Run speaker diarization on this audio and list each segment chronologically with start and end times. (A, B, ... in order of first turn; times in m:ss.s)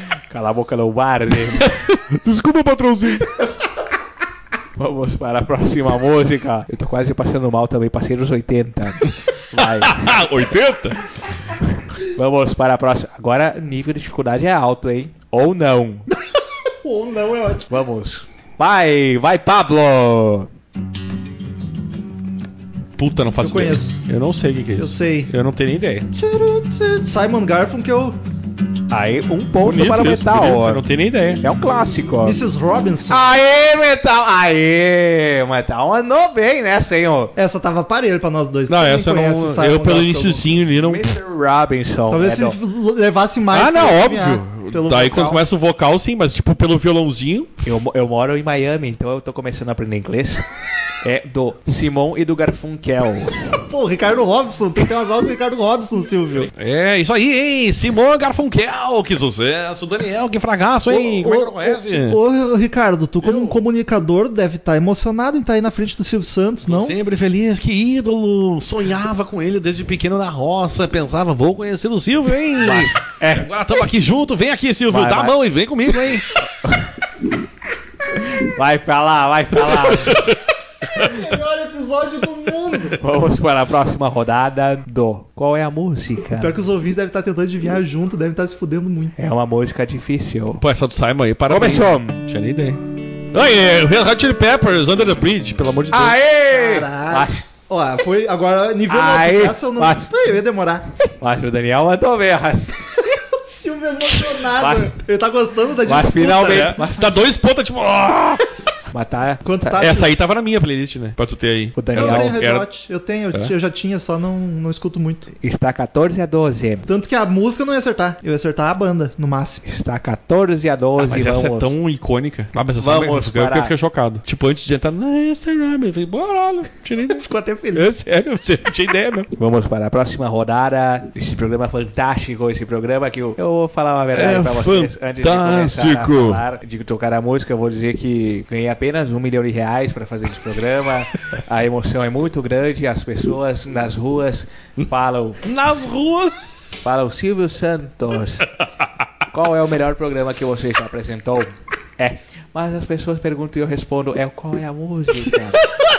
0:00.3-0:01.7 A
0:01.6-0:03.3 B
0:04.8-0:10.1 A
0:09.8-0:11.0 B
0:12.1-0:16.1 A
0:16.8-0:17.7 C
0:17.7-0:20.5 A
0:23.0-0:26.1 B
0:23.4-0:24.0 C
0:24.8-0:25.3 C
0:26.1-0:28.2 C
0:28.9-0:30.8 A
0:29.6-0:31.4 B
0:31.4-0:32.4 A
0:32.2-0:33.3 C
0:33.1-0:37.3 A
0:37.4-0:40.6 C
0:38.7-0:41.2 B
0:40.6-0:42.6 A
0:42.1-0:45.4 C
0:43.5-0:47.6 B
0:47.6-0:50.4 A
0:51.0-0:53.4 A
0:53.6-0:56.5 C
0:56.6-1:02.2 B
1:00.9-1:07.0 C
1:03.2-1:03.6 B
1:06.7-1:16.3 B
1:12.6-1:13.5 A
1:14.9-1:15.4 A
1:18.4-1:20.2 A
1:21.0-1:23.0 C
1:23.0-1:26.6 A
1:26.4-1:29.1 C
1:29.2-1:30.6 A
1:30.6-1:32.8 B
1:31.5-1:32.2 A
1:33.3-1:36.2 B
1:35.9-1:37.4 A
1:36.5-1:40.9 C
1:38.9-1:40.1 A
1:41.2-1:42.8 A
1:43.0-1:46.8 C
1:44.6-1:45.0 A
1:45.9-1:47.3 A
1:46.3-1:48.4 B
1:48.9-1:49.8 A
1:49.4-1:50.1 C
1:49.8-1:52.7 B
1:51.8-1:52.4 A
1:51.9-1:55.3 C
1:55.4-1:56.9 A
1:56.9-1:59.6 C
1:59.6-2:01.7 A
2:01.0-2:07.2 B
2:02.8-2:03.7 A
2:07.1-2:07.9 C
2:07.7-2:09.3 B
2:09.3-2:25.4 A
2:14.1-2:16.4 B
2:25.4-2:26.7 B
2:26.8-2:28.5 A
2:29.3-2:35.6 A